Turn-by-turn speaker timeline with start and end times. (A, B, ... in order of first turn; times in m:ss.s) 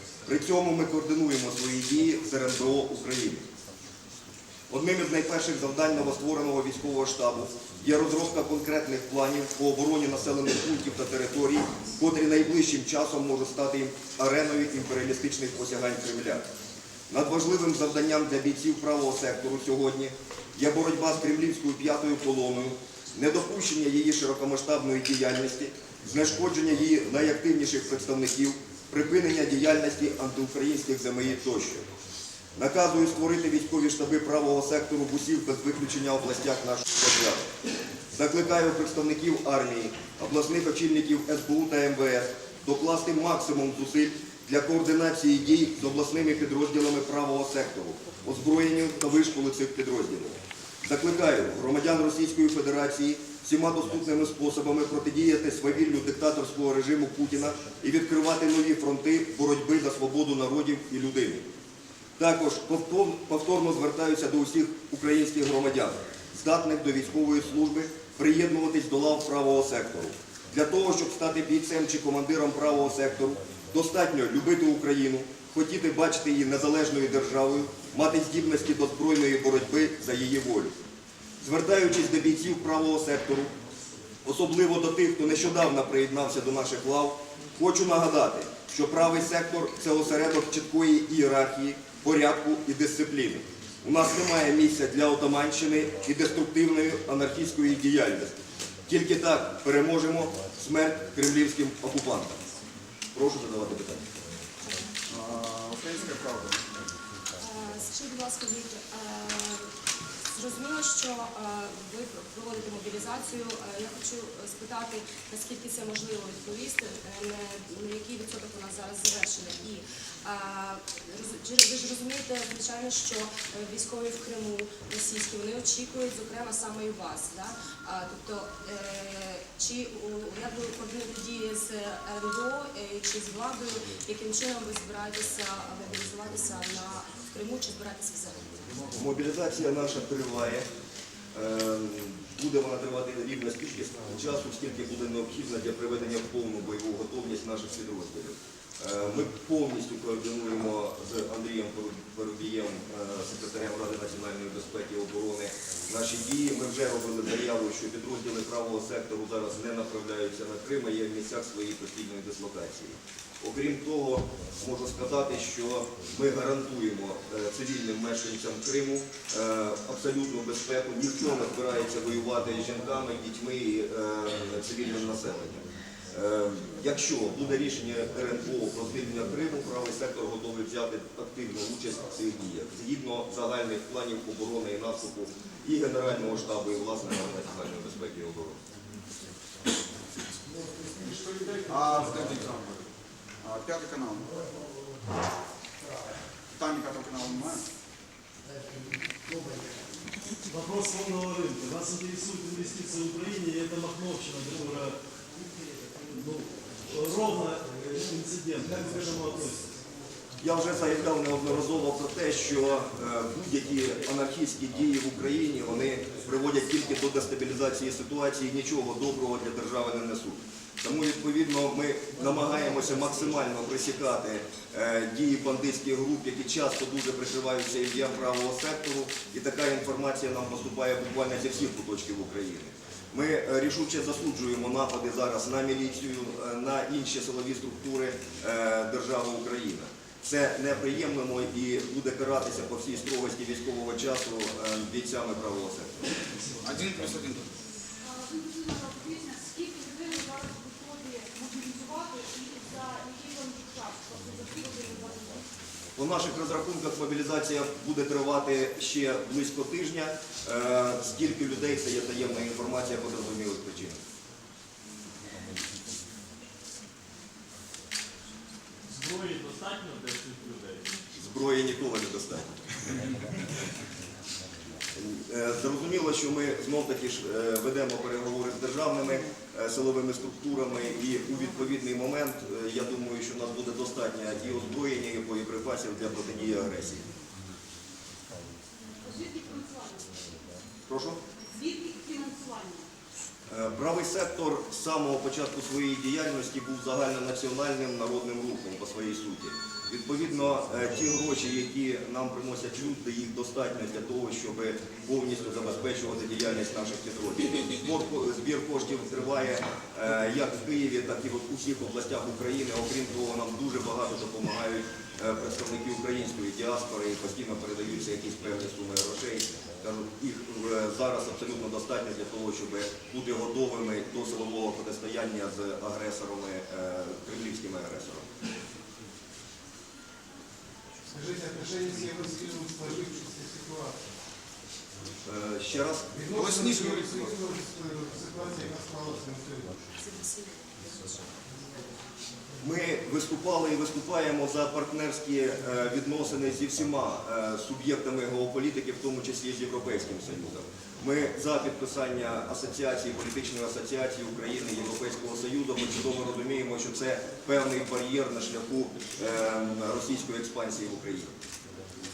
0:00.3-0:03.4 A
0:04.7-0:16.5 A
0:17.1-0:31.9 A
0:32.6-0:37.5 A
0:38.1-1:01.5 A
1:02.2-1:20.7 A
1:21.4-1:23.5 A
1:24.2-1:38.4 A
1:38.9-1:42.4 A
1:43.1-1:44.1 A
1:45.1-1:46.7 B
1:47.4-1:49.7 C
1:50.3-2:18.4 C
2:19.0-2:20.7 A
2:21.3-3:08.6 A
3:11.0-3:12.9 B
3:13.4-3:14.4 B
3:16.5-3:17.6 B
3:20.5-3:25.0 D
3:26.0-3:29.7 D
3:30.4-4:06.0 A
4:06.6-4:07.5 B
4:08.0-4:15.4 E
4:16.0-4:24.0 A
4:28.9-4:30.9 D
4:31.2-4:32.9 A
4:35.0-4:47.1 A
4:49.0-4:50.1 E
4:50.9-4:51.2 A
4:51.5-4:52.9 E
4:53.5-5:28.2 A
5:31.1-5:34.0 F
5:35.3-5:36.1 A
5:36.2-5:39.7 F
5:36.3-5:37.4 B
5:40.0-5:41.3 C
5:42.6-6:01.3 A